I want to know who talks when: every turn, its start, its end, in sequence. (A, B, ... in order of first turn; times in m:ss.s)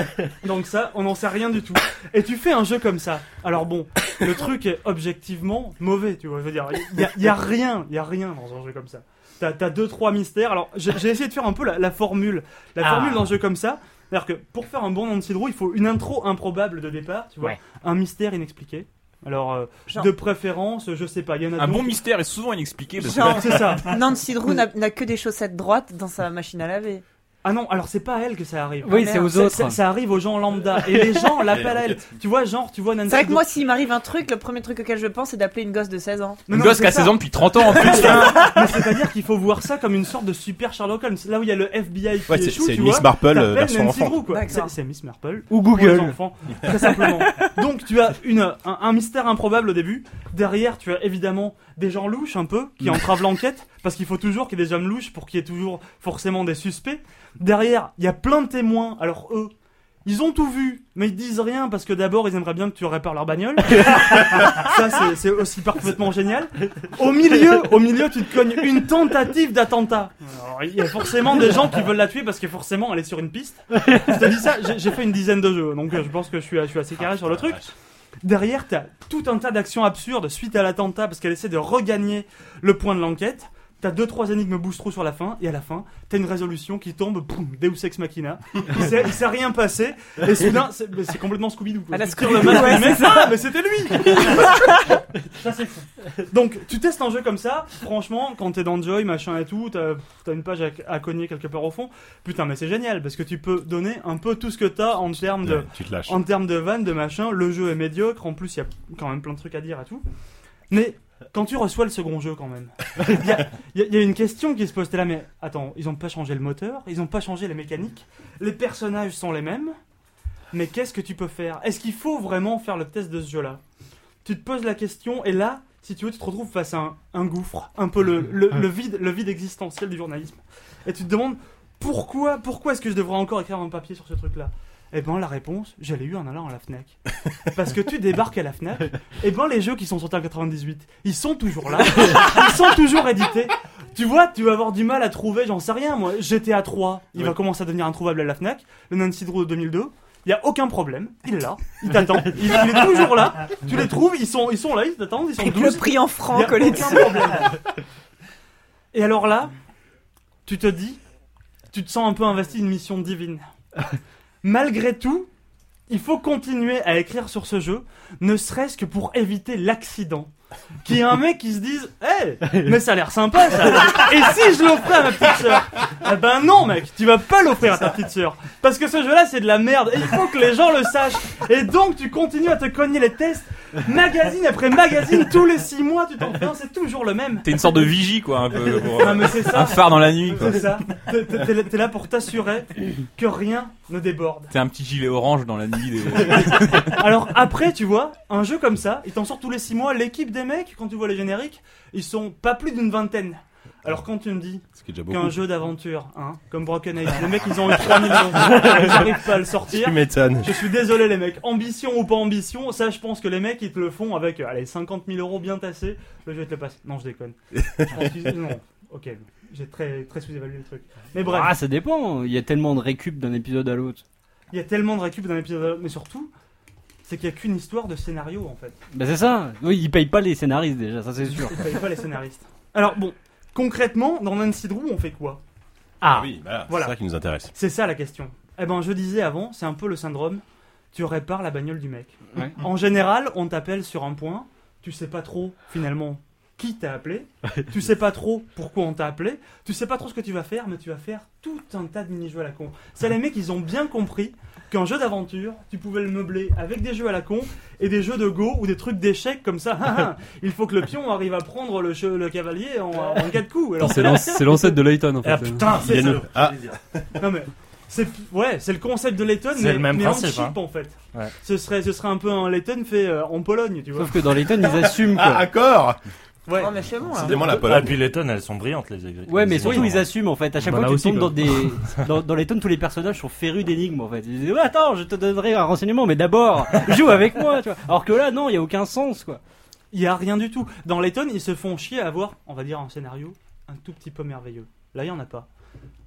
0:00.4-0:22.0 A
0:12.8-0:13.3 B
0:21.6-0:23.6 C
0:23.0-0:27.0 D
0:23.2-0:24.0 A
0:27.4-0:33.4 A
0:28.8-0:29.8 B
0:28.9-0:29.3 D
0:30.8-0:31.2 B
0:31.5-0:32.1 E
0:33.1-0:36.4 D
0:36.5-0:59.5 A
0:36.5-0:38.5 C
0:37.8-0:38.6 D
0:42.3-0:44.3 E
0:44.3-0:44.8 D
0:45.5-0:46.7 B
1:00.0-1:17.7 A
1:17.0-1:17.6 E
1:18.2-1:34.7 A
1:31.9-1:33.4 D
1:34.0-1:34.9 D
1:35.3-1:50.0 A
1:45.4-1:46.2 E
1:50.7-1:59.7 A
2:00.5-2:03.6 A
2:04.2-2:37.6 A
2:35.4-2:37.5 D
2:38.9-2:39.5 A
2:40.4-2:41.0 A
2:41.7-2:43.4 A
2:44.4-2:45.3 A
2:45.9-2:50.3 A
2:50.8-3:07.8 A
3:07.4-3:10.9 C
3:08.8-3:14.5 A
3:14.5-3:17.0 C
3:16.2-3:41.6 A
3:24.7-3:25.4 E
3:28.0-3:30.7 E
3:37.6-3:38.1 E
3:41.2-3:44.0 B
3:44.5-3:46.3 A
3:47.0-3:48.8 A
3:48.9-3:51.7 B
3:51.4-3:55.4 A
3:56.0-3:57.0 A
3:56.1-3:57.5 E
3:57.5-4:24.8 A
4:02.3-4:02.6 B
4:23.8-4:25.7 F
4:25.2-4:26.7 G
4:25.7-4:26.2 A
4:25.8-4:27.2 E
4:27.2-4:34.2 A
4:29.5-4:31.3 G
4:34.0-4:35.5 B
4:34.5-4:36.0 E
4:36.5-4:36.7 A
4:36.5-4:37.6 D
4:37.0-4:38.0 E
4:37.2-4:40.0 G
4:39.3-4:49.4 B
4:39.6-4:40.0 A
4:40.6-4:41.4 F
4:49.9-4:55.5 A